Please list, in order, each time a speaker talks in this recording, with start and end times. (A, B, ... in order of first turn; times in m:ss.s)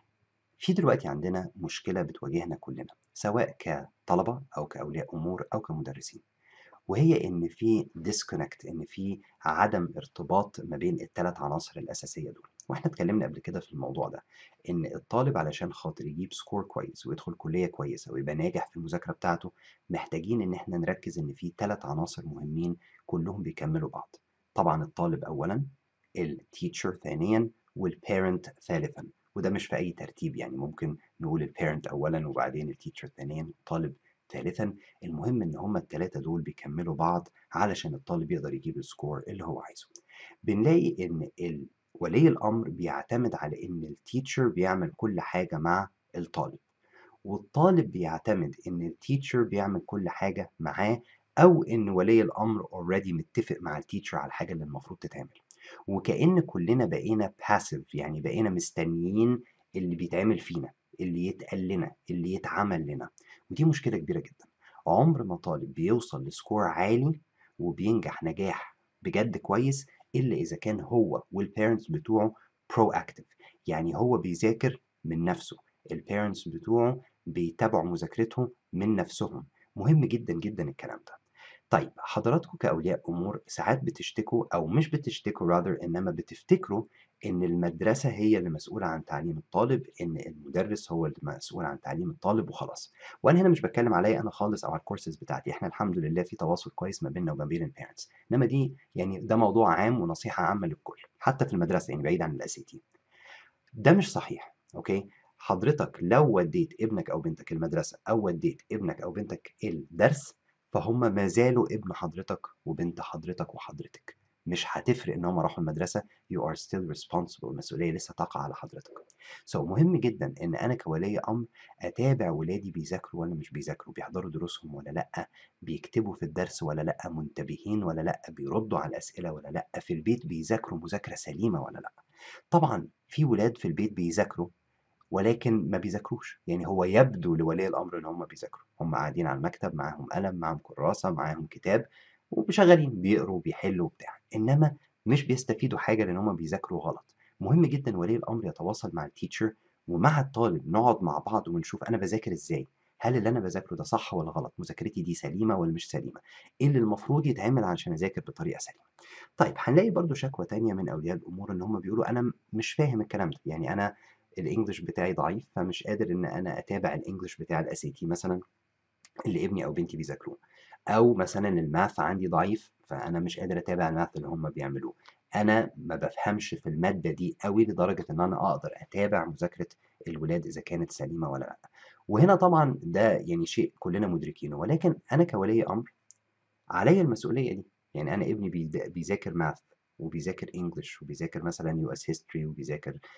0:00.6-0:06.2 A
0:06.9-0:25.7 A
0:26.2-0:39.9 A
0:40.4-0:46.6 A
0:47.2-1:21.2 A
1:21.7-1:42.8 A
1:43.8-2:12.0 A
2:12.5-2:14.5 A
2:15.1-2:38.9 A
2:39.4-2:48.4 A
2:49.3-2:50.4 A
2:50.9-3:05.9 A
3:06.8-3:13.0 A